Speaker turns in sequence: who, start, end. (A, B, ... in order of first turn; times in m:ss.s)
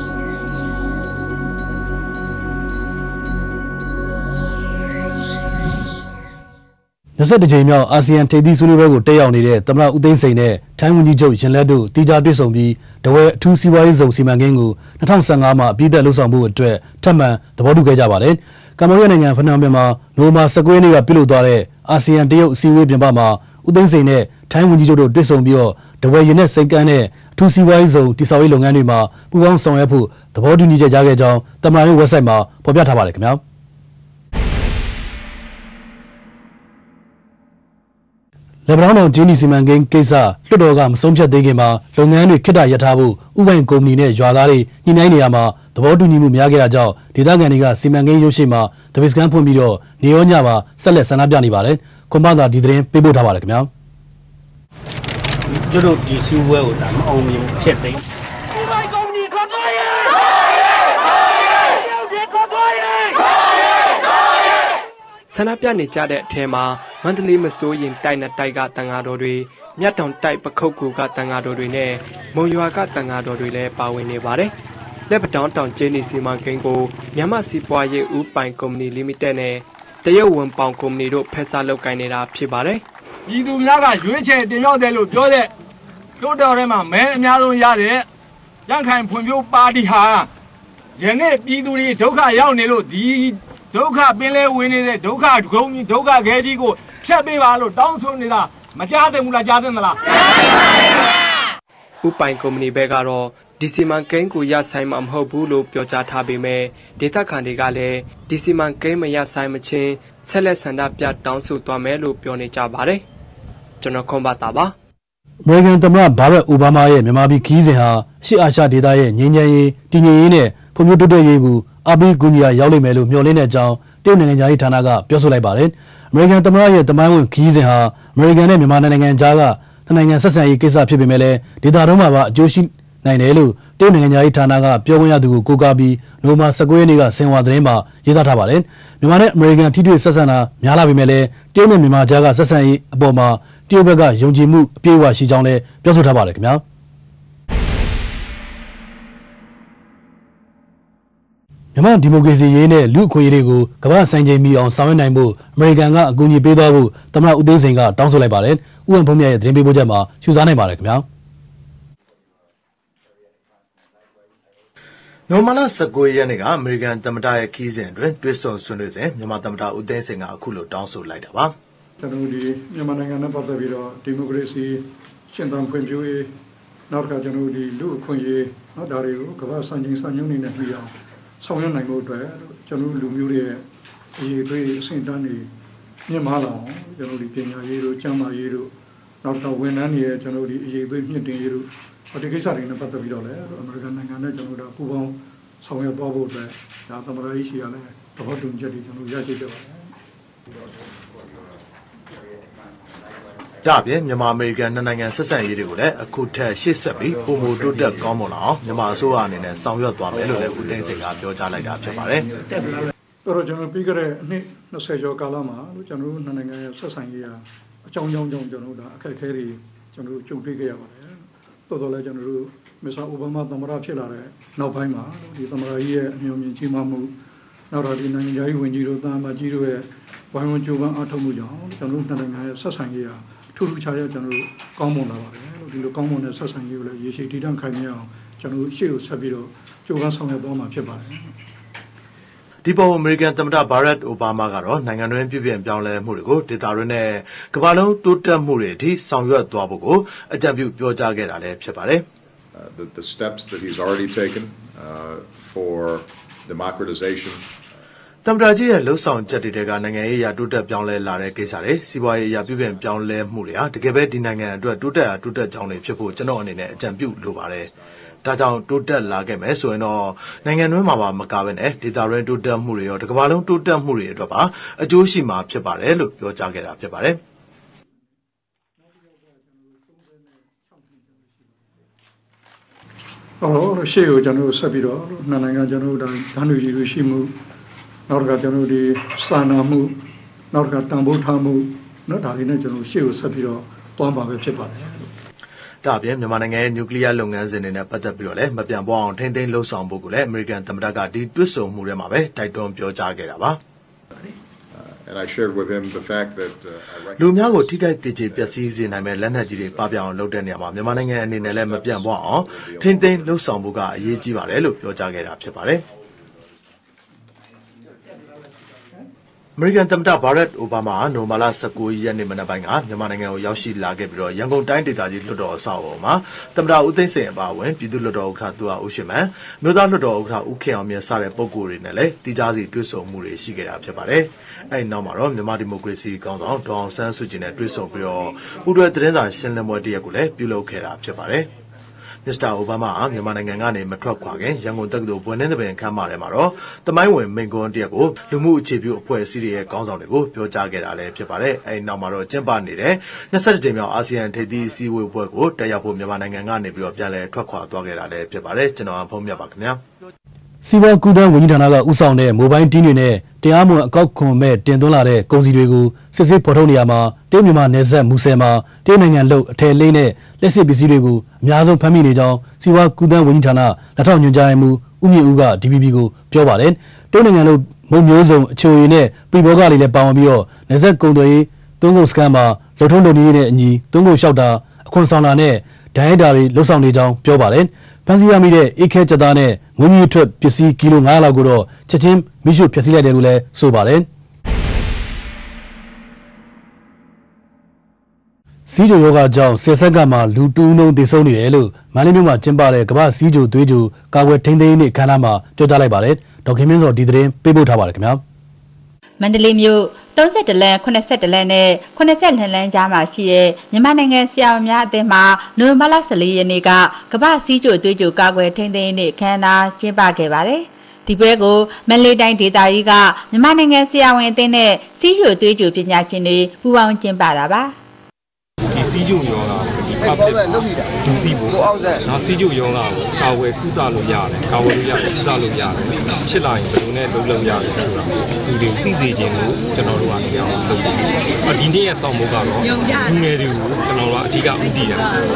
0:07.2-0:33.4 A
0:38.7-0:53.7 A
0:55.6-0:58.0 B
0:59.0-0:59.9 B
1:02.0-1:02.9 B
1:05.3-1:14.5 C
1:15.1-1:22.8 C
1:23.3-1:25.5 D
1:26.2-1:28.0 D
1:28.7-1:30.3 D
1:31.0-1:40.0 D
1:42.0-1:53.0 C
1:53.8-1:54.7 C
1:55.4-2:26.6 A
2:31.7-2:41.0 A
2:45.3-2:51.5 E
2:52.0-2:56.3 F
2:56.9-3:03.6 F
3:04.2-3:05.5 F
3:06.1-3:08.7 F
3:09.2-3:19.9 F
3:23.6-3:32.2 E
3:33.2-3:47.1 F
3:47.7-4:01.3 F
4:02.6-4:12.0 E
4:12.5-4:17.5 G
4:18.2-4:27.7 E
4:28.2-4:37.2 E
4:38.8-4:41.6 F
4:43.4-4:47.3 F
4:48.1-4:50.0 F
4:50.5-4:55.1 F
4:55.8-5:03.6 E
5:04.7-5:07.7 G
5:07.2-5:15.8 E
5:11.2-5:13.5 G
5:19.6-5:41.5 E
5:42.2-5:59.8 E
6:00.6-6:34.1 A
6:38.7-6:48.2 A
6:49.2-7:07.8 H
7:08.7-7:25.1 I